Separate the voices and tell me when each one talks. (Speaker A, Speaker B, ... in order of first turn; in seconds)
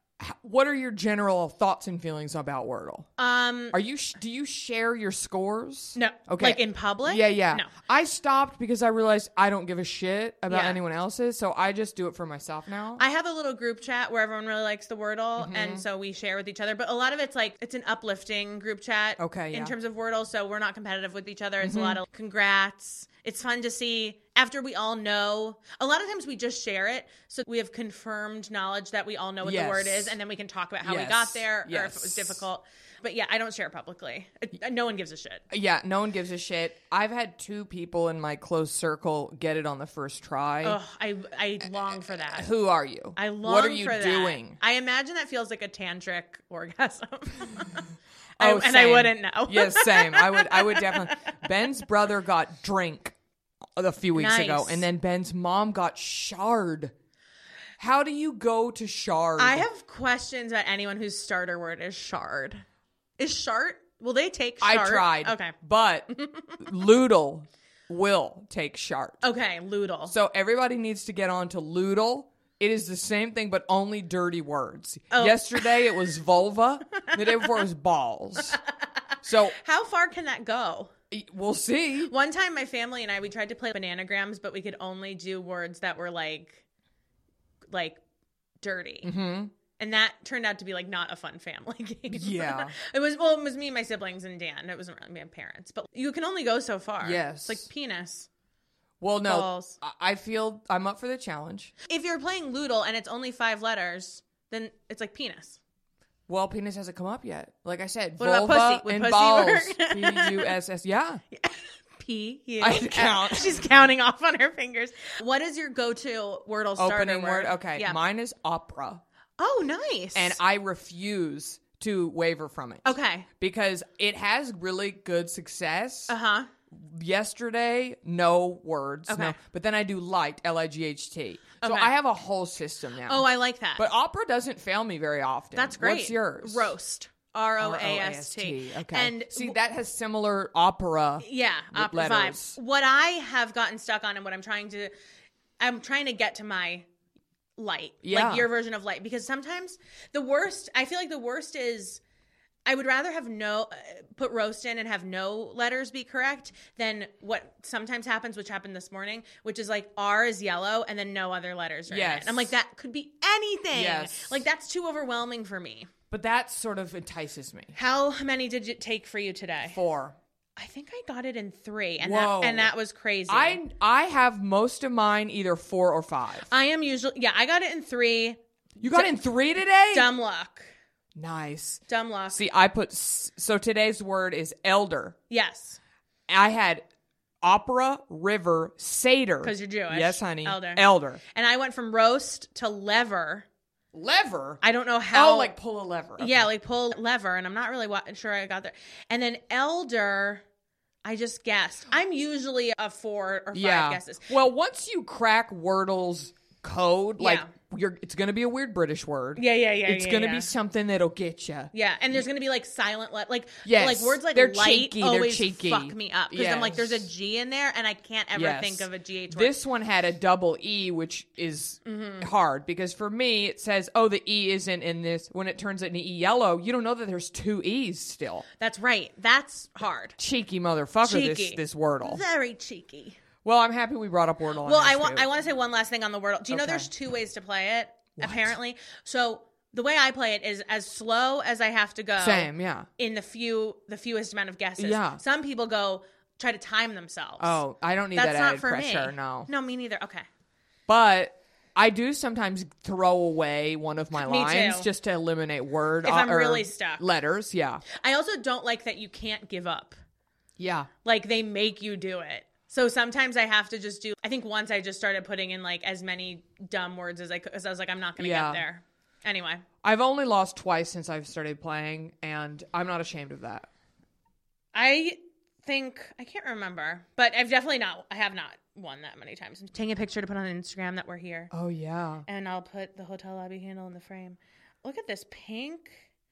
Speaker A: 0.2-3.1, 3.7-13.0, 15.4-15.8, 19.2-19.8, 21.6-22.0, 29.4-30.2, 30.8-32.4, 35.5-40.8, 41.6-44.6, 48.4-53.1, 53.8-56.9, 57.8-59.7, 64.6-69.2, 70.1-78.6, 79.2-79.5, 81.1-82.1, 89.0-89.5, 92.1-92.7, 97.0-97.7, 99.0-101.7, 106.3-111.2, 112.6-113.6, 116.8-119.0, 120.1-126.1, 126.7-136.7, 137.6-142.6, 148.0-148.5, 161.9-162.5, 163.7-164.4, 166.1-167.7, 169.7-170.2, 172.0-172.7, 173.3-176.5, 178.8-180.1, 181.2-185.2, 186.3-186.8, 187.4-191.2, 193.9-196.5, 203.5-211.7, 213.6-217.1, 218.3-228.4, 230.2-232.2, 233.4-235.3, 236.5-236.9, 238.2-238.6, 242.2-242.9, 244.8-245.2, 247.4-249.5, 250.9-257.8, 260.6-260.9, 268.2-268.6, 269.8-273.7, 281.5-282.2
Speaker B: 3.2-3.8, 6.0-7.7, 10.5-10.8, 13.0-35.4, 40.6-42.5, 43.1-47.9, 48.4-51.4, 54.1-54.8, 59.4-62.6, 63.2-65.5, 66.1-66.6, 69.2-70.1, 75.1-75.7, 77.0-77.6, 79.5-80.9, 82.1-86.6, 87.7-88.0, 88.6-89.1, 89.8-98.3, 99.2-99.8, 101.9-105.6, 108.2-110.5, 111.3-118.0, 119.4-120.4, 122.8-123.3, 126.1-126.5, 129.1-129.4, 131.6-131.9, 133.1-133.8, 135.5-139.6, 141.2-144.9, 145.6-146.9, 147.6-152.0, 152.6-165.9, 167.7-169.8, 170.6-173.6, 176.5-179.2, 179.9-180.7, 181.9-182.4, 185.3-185.8, 189.4-193.4, 194.6-195.5, 196.2-200.4, 201.0-204.3, 207.2-207.5, 209.3-210.5, 211.7-219.5, 221.8-222.3, 228.6-230.2, 231.0-233.2, 234.6-247.6, 248.1-250.2, 254.2-254.9, 256.0-257.0, 257.9-260.0, 261.0-269.6, 274.7-281.5, 282.3-286.0